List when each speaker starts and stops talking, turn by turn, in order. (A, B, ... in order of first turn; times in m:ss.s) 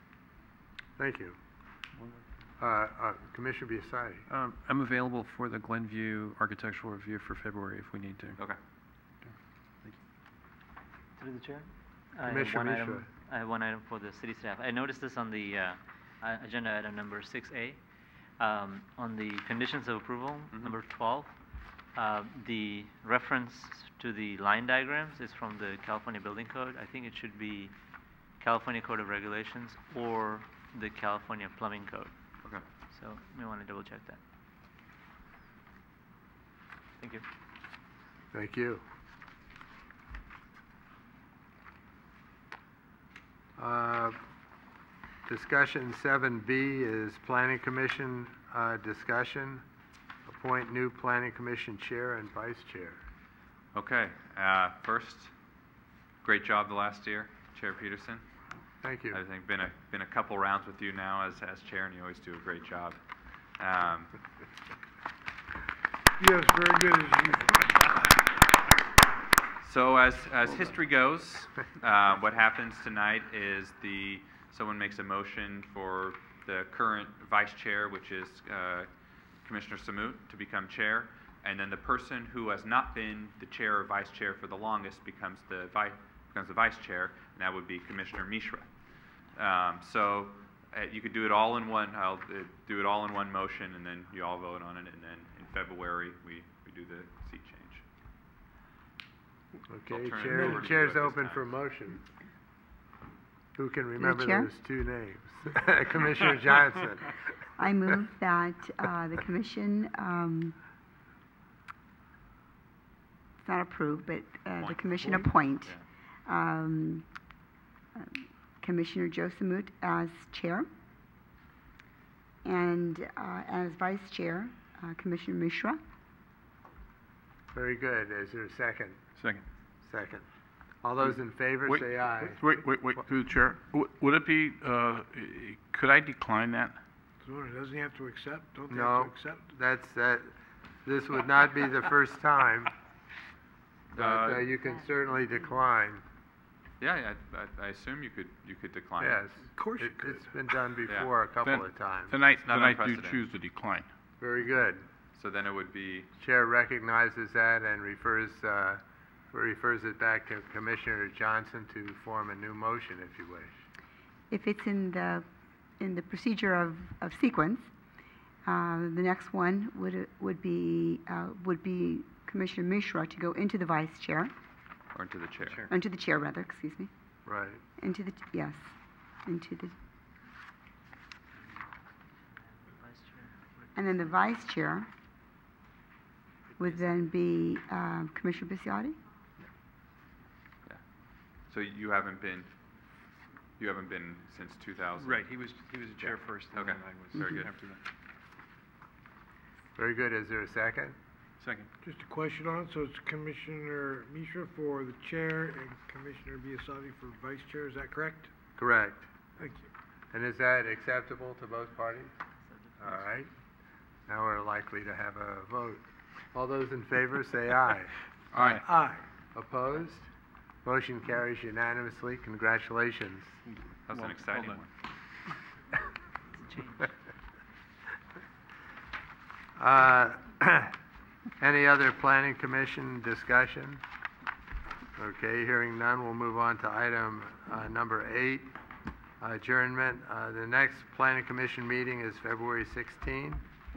0:01.0-0:01.4 A
0:02.6-0:04.2 A
0:04.3-0:08.4 B
0:11.2-0:17.8 C
0:12.2-0:13.1 A
0:18.4-0:21.3 C
0:21.9-0:27.7 C
0:28.4-0:32.1 C
0:32.9-0:34.2 C
0:37.0-0:37.2 C
0:38.3-0:38.8 A
0:43.6-0:44.2 A
0:45.2-0:49.6 A
0:50.3-0:53.0 A
0:53.7-0:55.3 D
0:56.2-0:58.2 D
0:58.8-0:59.2 A
0:59.1-1:03.0 D
1:03.6-1:04.1 D
1:06.2-1:07.6 E
1:09.6-1:18.9 D
1:19.4-1:28.7 D
1:29.3-1:37.8 D
1:39.7-1:42.0 A
1:39.9-1:41.6 D
1:43.6-1:47.1 A
1:44.0-1:44.5 F
1:47.6-1:50.5 F
1:53.4-1:57.0 F
1:54.6-1:55.8 D
1:58.0-2:00.7 F
2:02.4-2:05.8 F
2:07.5-2:09.0 A
2:09.2-2:09.4 B
2:09.8-2:10.2 A
2:10.8-2:12.4 A
2:11.6-2:16.8 G
2:17.2-2:19.4 E
2:18.7-2:20.3 A
2:20.8-2:22.7 A
2:23.9-2:24.5 D
2:24.0-2:26.0 A
2:26.8-2:29.2 D
2:29.0-2:32.2 A
2:29.6-2:30.2 E
2:31.4-2:33.9 G
2:32.4-2:33.2 D
2:34.2-2:34.8 A
2:35.1-2:36.1 D
2:36.2-2:43.5 A
2:44.3-2:45.2 F
2:45.8-2:47.7 F
2:48.4-2:54.3 F
2:54.9-2:55.6 D
2:55.7-2:56.9 F
2:57.2-2:57.6 A
2:57.8-2:58.6 F
2:59.2-2:59.7 F
3:01.4-3:01.7 C
3:02.2-3:04.1 C
3:03.7-3:04.9 F
3:06.6-3:09.0 F
3:11.5-3:12.5 D
3:13.6-3:15.2 D
3:15.0-3:17.8 B
3:16.0-3:17.5 D
3:19.8-3:20.9 A
3:21.4-3:21.7 B
3:21.9-3:28.3 E
3:28.6-3:29.1 A
3:30.1-3:32.1 A
3:32.4-3:33.0 C
3:32.8-3:33.3 A
3:34.1-3:35.8 A
3:36.3-3:37.9 A
3:38.3-3:38.6 G
3:38.4-3:39.0 E
3:39.3-3:40.1 A
3:40.6-3:43.4 A
3:43.5-3:44.6 B
3:43.8-3:44.7 D
3:46.3-3:46.9 C
3:49.6-3:50.7 A
3:51.4-3:53.8 A
3:55.0-3:58.5 A
3:59.2-4:03.5 A